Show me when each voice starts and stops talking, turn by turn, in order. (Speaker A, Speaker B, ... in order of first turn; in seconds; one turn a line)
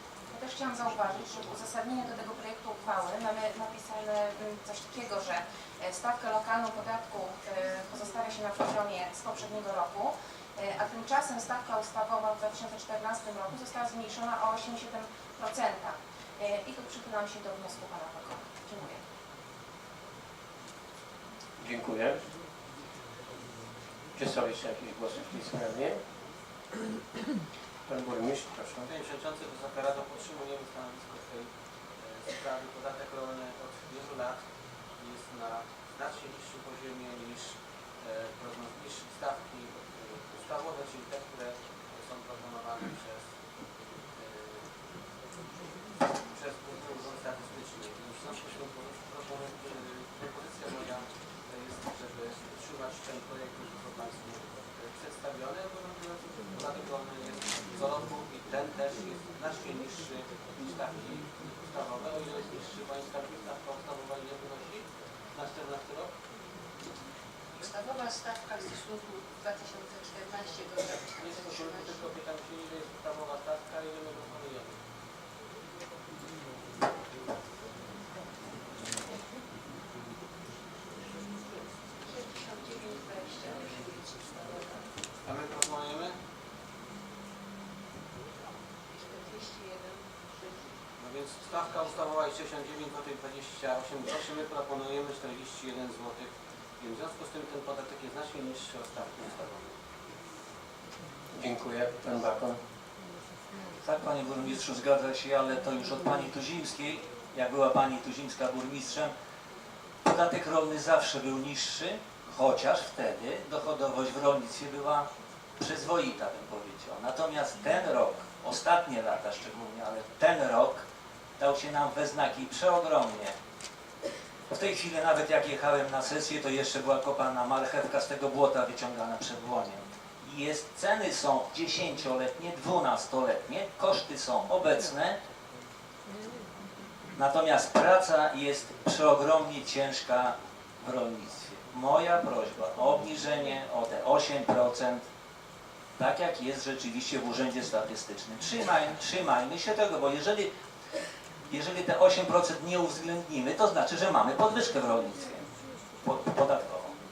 Speaker A: 0.3-19.0
Speaker B: 21.6-22.2
Speaker B: 24.2-26.0
Speaker B: 27.9-28.8
Speaker C: 28.9-34.4
Speaker C: 35.0-43.2
Speaker C: 44.2-44.7
Speaker C: 46.3-66.1
Speaker D: 67.6-71.7
Speaker C: 71.2-74.7
Speaker D: 82.0-84.8
Speaker C: 85.2-86.1
Speaker D: 88.9-90.0
Speaker C: 91.0-99.6
Speaker B: 101.4-102.6
Speaker E: 103.8-109.1
Speaker E: 110.0-115.1
Speaker E: 115.6-120.8
Speaker E: 121.4-123.3
Speaker E: 124.5-135.2
Speaker E: 137.2-145.1
Speaker E: 146.0-150.5
Speaker E: 151.5-155.5
Speaker E: 156.0-156.9